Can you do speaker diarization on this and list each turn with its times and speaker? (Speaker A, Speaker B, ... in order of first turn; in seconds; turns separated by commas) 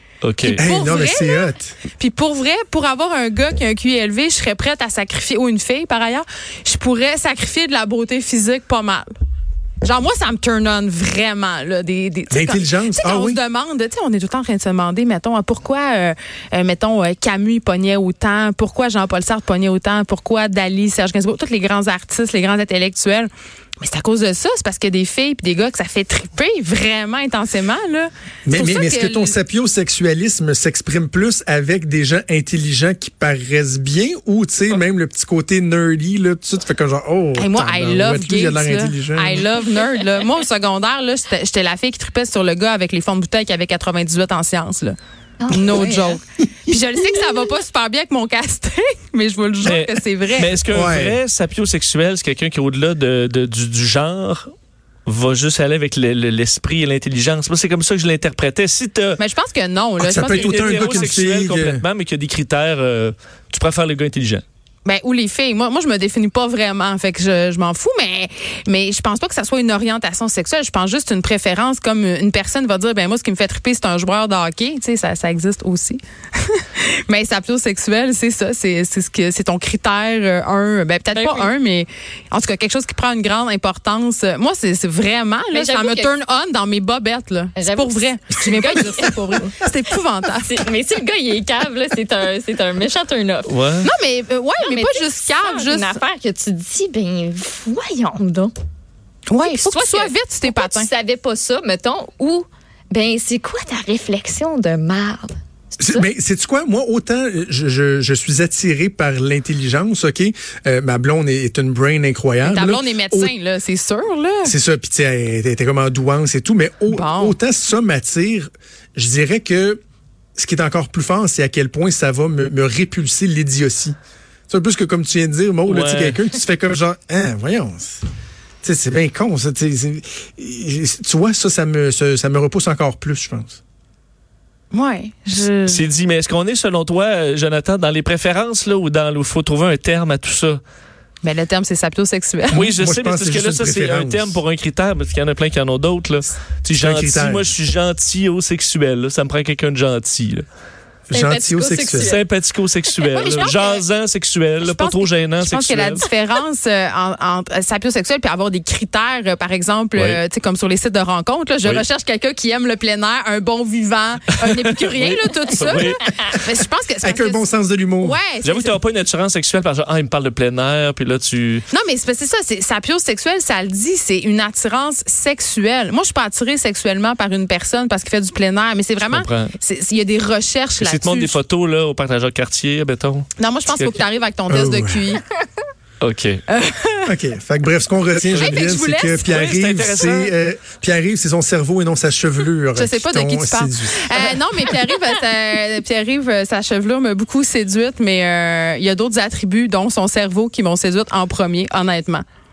Speaker A: 0.2-0.6, Speaker B: 0.4-9.1, Speaker C: 0.6-1.8, Speaker B: 9.8-29.3, Speaker C: 12.3-13.4, Speaker C: 28.4-39.4, Speaker B: 37.4-45.0, Speaker D: 45.4-46.1, Speaker B: 45.5-50.6, Speaker A: 49.6-54.5, Speaker C: 50.7-51.2, Speaker A: 55.1-59.2, Speaker B: 59.2-61.0, Speaker C: 60.0-61.8, Speaker A: 60.1-64.4, Speaker B: 64.8-90.6, Speaker D: 81.1-81.5, Speaker D: 85.5-86.1, Speaker D: 87.6-89.5, Speaker D: 90.4-93.6, Speaker A: 93.5-93.9, Speaker B: 93.8-96.0, Speaker D: 94.6-98.5, Speaker B: 99.3-100.9, Speaker D: 99.4-106.0, Speaker C: 105.8-113.3, Speaker B: 112.4-114.5, Speaker C: 114.4-119.8, Speaker B: 116.9-117.4, Speaker C: 120.4-124.0, Speaker C: 124.5-128.0, Speaker A: 125.7-126.2, Speaker C: 128.6-133.6, Speaker B: 134.7-135.8, Speaker A: 135.7-140.6, Speaker B: 141.2-142.7, Speaker C: 142.5-144.4, Speaker A: 142.5-150.4, Speaker C: 146.7-147.5, Speaker C: 151.1-152.2, Speaker D: 151.1-152.2, Speaker A: 152.0-156.1, Speaker D: 153.0-153.8, Speaker B: 153.1-153.7, Speaker B: 154.6-167.5, Speaker A: 164.4-166.0, Speaker C: 167.0-168.2, Speaker B: 168.0-168.8, Speaker A: 168.4-171.7, Speaker B: 171.7-181.4, Speaker A: 179.1-179.5, Speaker A: 180.8-184.0, Speaker B: 183.4-185.3, Speaker C: 184.5-185.1, Speaker A: 186.0-186.4, Speaker B: 186.5-187.1, Speaker C: 187.1-194.4, Speaker B: 188.3-189.4, Speaker A: 189.3-190.3, Speaker B: 192.8-202.2